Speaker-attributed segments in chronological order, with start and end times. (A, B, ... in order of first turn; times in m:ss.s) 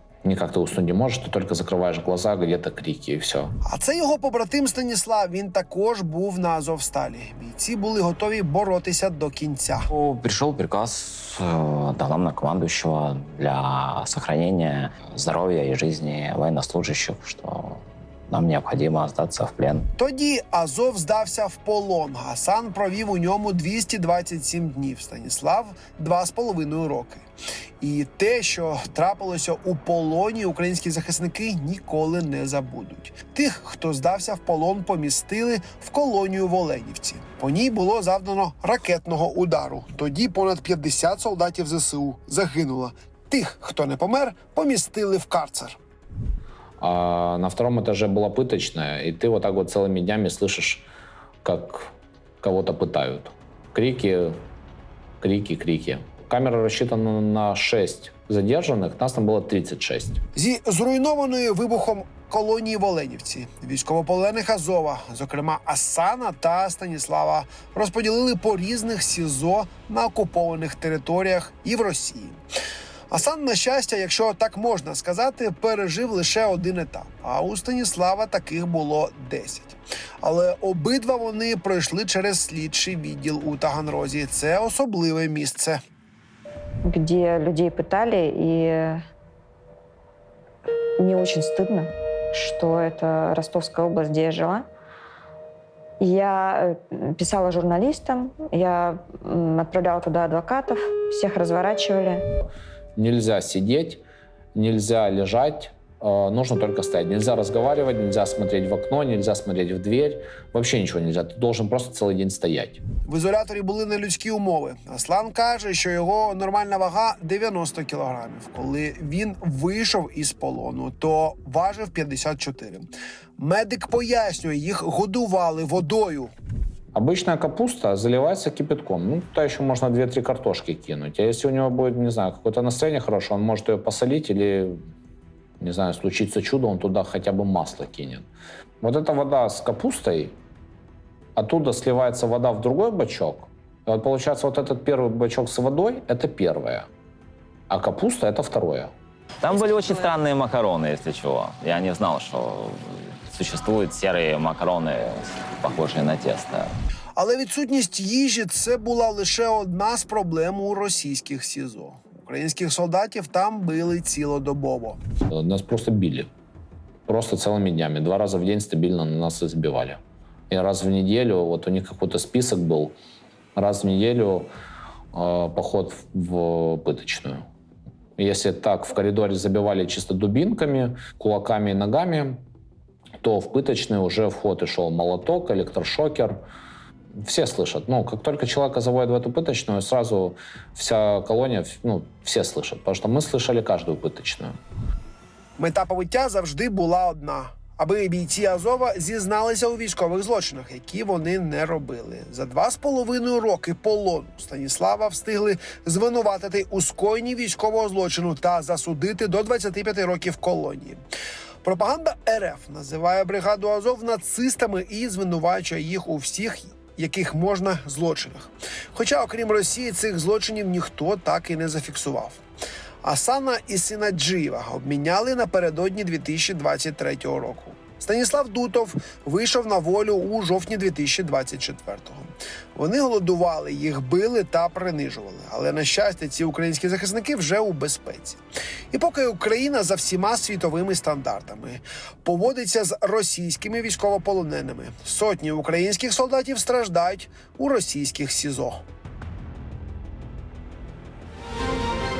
0:00.2-0:03.5 A
0:03.6-0:09.9 B
0:09.9-0:11.2 C
0:11.9-0:17.5 C
0:18.3-0:19.8 C
0:20.0-0:27.2 B
0:27.8-0:45.8 B
0:46.8-0:50.8 A
0:51.4-0:54.4 A
0:55.2-1:00.2 A
1:00.4-1:12.4 B
1:13.1-1:25.8 B
1:26.9-1:29.0 D
1:31.0-1:34.6 D
1:36.0-1:42.2 D
1:43.0-1:44.0 A
1:44.5-1:52.8 A
1:53.1-2:02.8 B
2:03.4-2:06.3 B
2:06.9-2:14.8 A
2:15.6-2:18.3 A
2:18.8-2:20.4 A
2:21.4-2:26.9 A
2:27.7-2:28.9 A
2:29.4-2:36.7 C
2:37.2-2:45.0 B
2:45.3-2:46.3 A
2:47.1-2:50.0 A
2:50.5-2:53.0 A
2:53.6-2:54.5 A
2:55.1-2:57.4 A
2:58.2-3:02.4 A
3:03.2-3:06.4 A
3:07.2-3:14.5 A
3:15.6-3:31.0 B
3:31.6-3:42.4 B
3:43.0-3:58.4 B
3:58.9-4:08.8 B